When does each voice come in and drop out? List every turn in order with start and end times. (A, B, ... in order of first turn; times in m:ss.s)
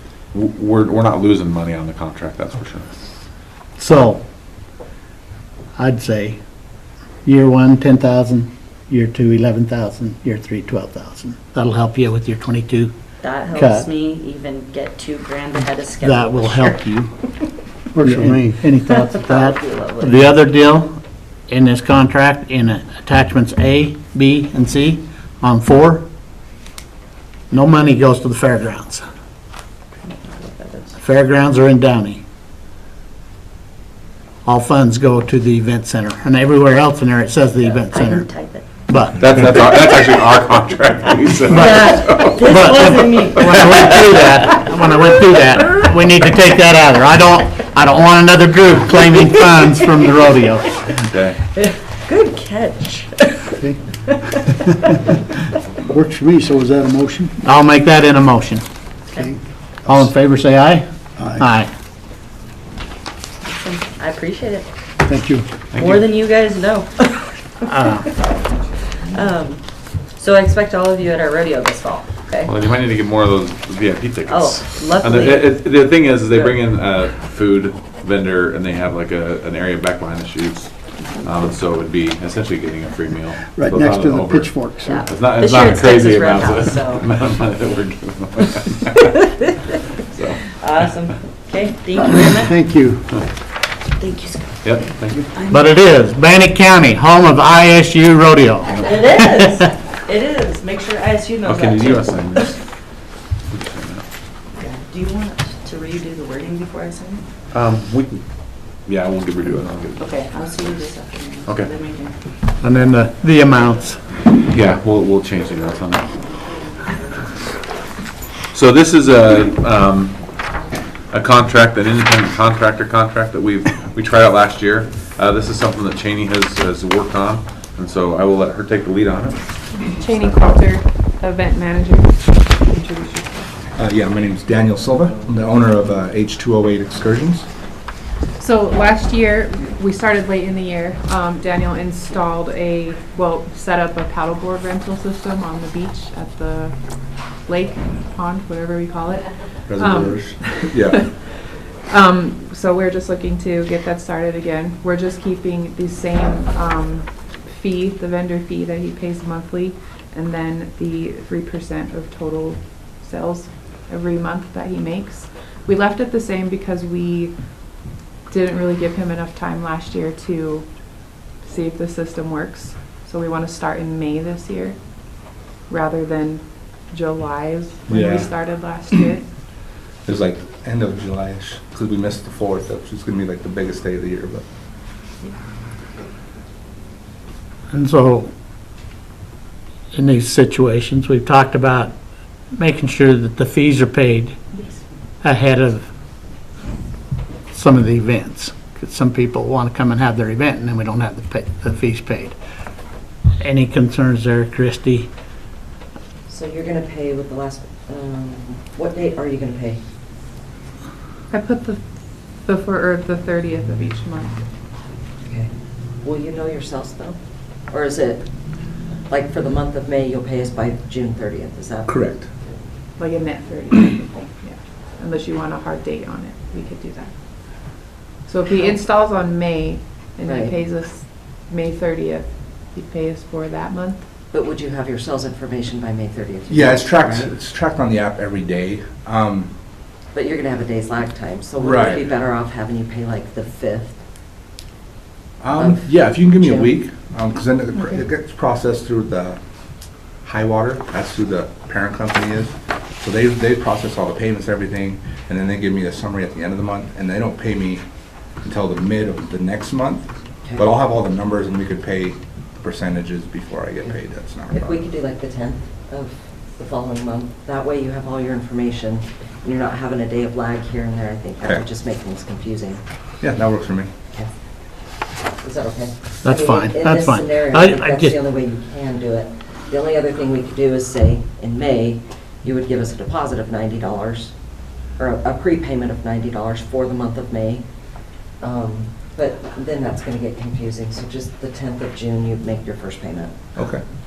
0:00.3-0:02.9 A
0:03.8-0:04.2 B
0:05.8-0:06.4 B
0:07.2-0:12.9 B
0:13.2-0:16.8 C
0:13.5-0:13.9 B
0:16.0-0:17.1 B
0:18.0-0:18.6 D
0:18.0-0:21.0 B
0:18.9-0:20.2 C
0:21.5-0:26.0 B
0:27.5-0:29.0 B
0:30.0-0:31.0 C
0:31.0-0:32.2 B
0:34.4-0:38.3 B
0:37.7-0:38.7 C
0:38.9-0:39.3 B
0:39.2-0:42.8 A
0:41.5-0:44.7 C
0:41.5-0:50.7 B
0:43.3-0:43.7 A
0:51.1-0:51.4 A
0:51.6-0:54.9 C
0:55.9-0:57.4 D
0:57.4-0:58.6 B
0:59.2-1:00.1 D
0:59.9-1:01.7 B
1:01.2-1:01.5 D
1:03.4-1:04.7 C
1:05.0-1:05.5 D
1:05.7-1:06.1 A
1:05.8-1:08.2 C
1:07.7-1:08.0 B
1:08.8-1:09.6 C
1:10.2-1:12.5 C
1:12.4-1:29.1 A
1:14.3-1:15.6 C
1:23.6-1:25.1 D
1:24.8-1:27.1 C
1:30.0-1:31.1 A
1:30.5-1:32.6 C
1:31.9-1:33.1 D
1:34.0-1:34.8 C
1:34.6-1:35.2 A
1:35.5-1:39.7 B
1:38.8-1:42.6 C
1:41.4-1:42.6 A
1:43.5-1:44.0 A
1:44.6-1:47.2 C
1:47.5-1:48.2 A
1:48.8-1:50.0 A
1:50.0-1:52.1 C
1:51.5-1:51.8 A
1:52.6-1:54.0 B
1:54.5-1:56.2 A
1:58.5-2:00.3 A
2:01.1-2:09.4 A
2:09.8-2:13.5 E
2:13.8-2:17.5 F
2:18.4-2:47.3 E
2:29.7-2:31.0 F
2:48.3-2:50.7 E
2:51.4-2:59.2 E
2:57.9-2:58.3 F
3:00.1-3:04.4 F
3:07.7-3:08.3 B
3:09.9-3:12.0 B
3:12.5-3:14.4 B
3:15.2-3:15.9 B
3:17.5-3:22.4 B
3:23.4-3:25.1 B
3:26.3-3:29.8 G
3:31.3-3:31.8 E
3:32.4-3:34.4 E
3:35.3-3:37.2 G
3:37.7-3:38.3 G
3:39.1-3:42.0 G
3:41.9-3:42.3 F
3:43.0-3:47.1 E
3:48.3-3:54.0 E
3:50.2-3:50.6 G
3:54.3-3:57.3 G
3:56.5-3:59.5 F
4:00.1-4:04.0 G
4:01.6-4:02.1 F
4:05.4-4:09.4 F
4:05.6-4:06.8 G
4:07.8-4:08.0 E
4:10.2-4:17.8 F
4:18.4-4:24.8 F
4:24.5-4:32.8 G
4:33.2-4:33.9 F
4:35.4-4:44.3 G
4:36.2-4:38.2 B
4:45.0-4:47.7 G
4:48.4-4:53.3 G
4:53.6-4:53.8 F